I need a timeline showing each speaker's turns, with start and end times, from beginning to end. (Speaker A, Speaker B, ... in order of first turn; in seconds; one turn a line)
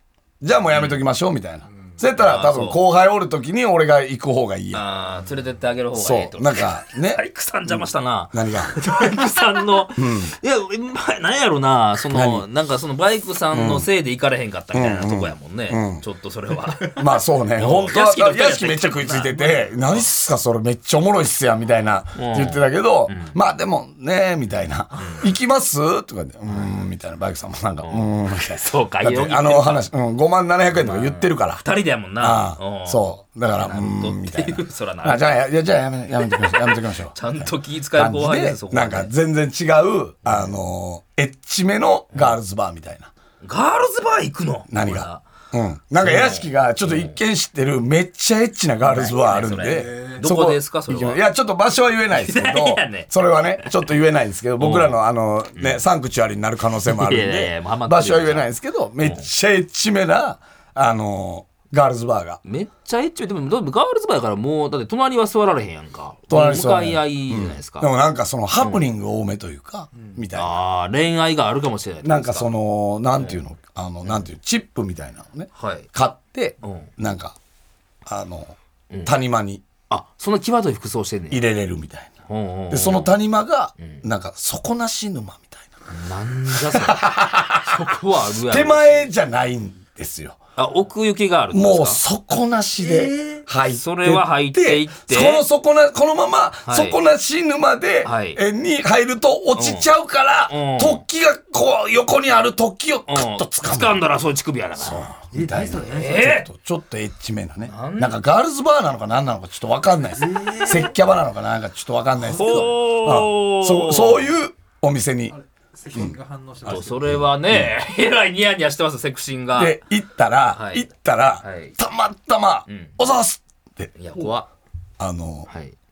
Speaker A: 0.4-4.8
Speaker B: 0.7-1.0
Speaker B: 2.2-2.8
Speaker B: 4.7-17.0
Speaker A: 5.9-8.8
Speaker A: 9.9-10.3
Speaker A: 12.1-12.4
Speaker A: 13.5-13.9
Speaker A: 14.7-16.0
Speaker A: 16.9-31.6
Speaker B: 17.6-20.1
Speaker B: 22.1-23.4
Speaker B: 25.0-25.3
Speaker B: 27.8-29.9
Speaker B: 30.7-35.4
Speaker A: 32.2-43.1
Speaker B: 36.2-39.1
Speaker B: 40.2-40.5
Speaker B: 43.4-45.2
Speaker A: 44.7-62.4
Speaker B: 46.0-47.1
Speaker B: 48.8-51.2
Speaker C: 49.6-50.2
Speaker B: 52.1-54.0
Speaker B: 54.6-55.0
Speaker B: 55.5-55.8
Speaker B: 56.9-58.5
Speaker B: 59.0-59.3
Speaker B: 62.4-67.9
Speaker A: 66.3-70.6
Speaker B: 68.6-68.8
Speaker B: 70.3-72.5
Speaker A: 72.0-77.3
Speaker B: 73.2-73.4
Speaker B: 75.5-75.9
Speaker B: 76.6-76.9
Speaker A: 78.0-79.6
Speaker B: 79.9-81.5
Speaker A: 81.3-82.1
Speaker B: 82.3-83.2
Speaker A: 82.7-85.7
Speaker B: 85.9-87.0
Speaker A: 86.5-87.8
Speaker B: 87.6-89.1
Speaker A: 88.5-90.4
Speaker B: 90.5-92.0
Speaker A: 91.5-104.0
Speaker B: 93.7-95.4
Speaker B: 96.7-97.0
Speaker B: 98.0-98.4
Speaker B: 99.5-99.9
Speaker B: 100.5-101.0
Speaker B: 103.1-105.1
Speaker A: 104.8-115.3
Speaker C: 105.3-106.4
Speaker B: 105.8-106.5
Speaker B: 107.7-108.2
Speaker C: 110.2-110.9
Speaker C: 112.1-112.7
Speaker B: 112.3-114.3
Speaker C: 115.3-117.3
Speaker B: 116.7-119.8
Speaker A: 117.5-117.7
Speaker A: 119.5-123.9
Speaker B: 120.5-120.9
Speaker B: 121.4-121.8
Speaker B: 122.7-123.0
Speaker B: 124.0-124.5
Speaker A: 125.0-125.5
Speaker B: 125.5-125.7